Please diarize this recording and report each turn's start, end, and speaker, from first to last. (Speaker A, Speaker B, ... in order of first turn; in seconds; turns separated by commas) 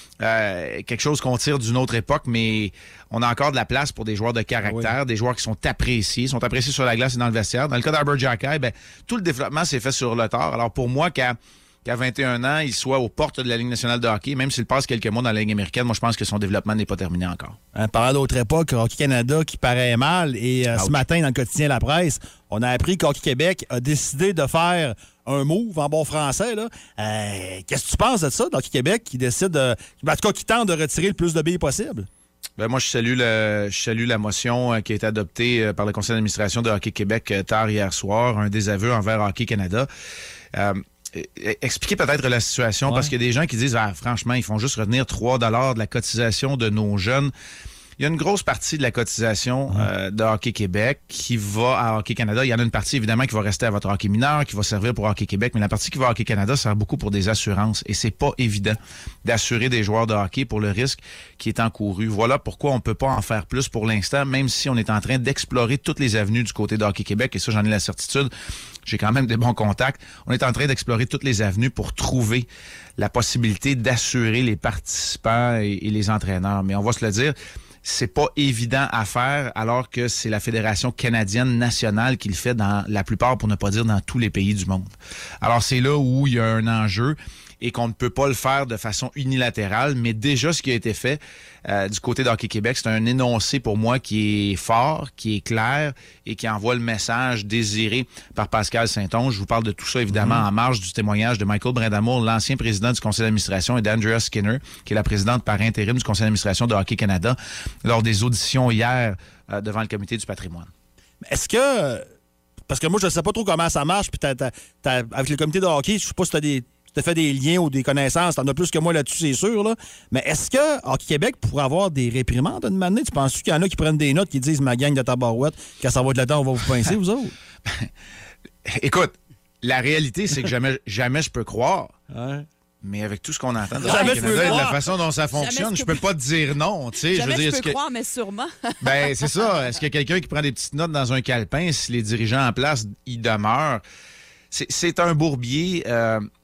Speaker A: 0.2-17.6, Speaker B: 4.7-4.9, Speaker B: 17.7-32.1, Speaker A: 20.8-21.0, Speaker A: 32.6-39.9, Speaker A: 40.5-47.3, Speaker A: 48.0-68.3, Speaker A: 68.9-72.5, Speaker A: 73.0-84.9, Speaker A: 85.4-110.7, Speaker B: 111.2-112.0, Speaker B: 112.7-127.3, Speaker A: 128.7-131.9, Speaker B: 132.1-132.4, Speaker A: 132.8-137.8, Speaker C: 133.8-134.7, Speaker B: 133.8-134.8, Speaker C: 135.3-136.0, Speaker C: 137.1-139.1, Speaker A: 138.8-143.8, Speaker A: 144.5-146.3